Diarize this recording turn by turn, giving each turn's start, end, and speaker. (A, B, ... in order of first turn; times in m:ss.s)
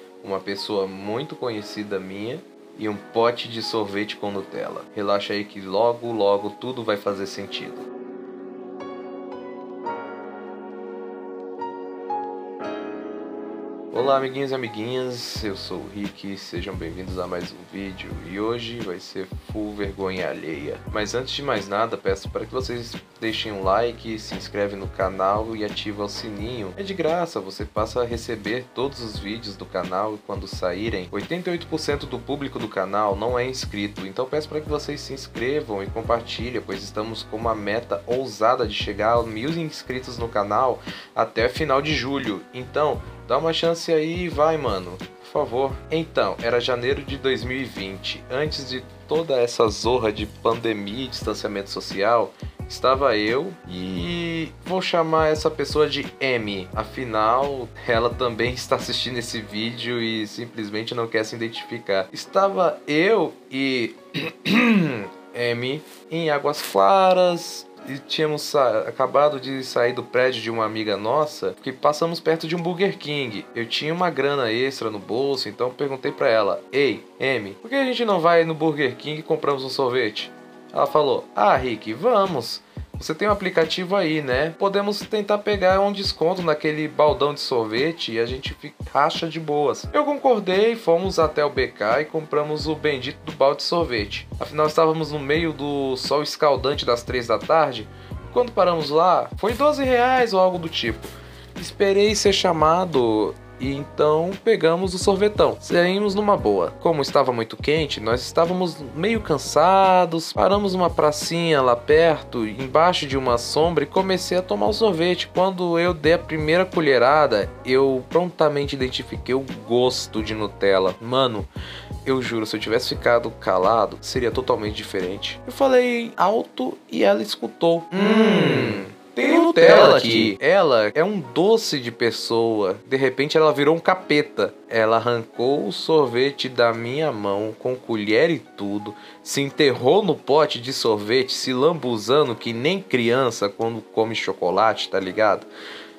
0:00.2-0:07.9 A
0:13.9-2:01.5 A
2:02.0-2:25.5 A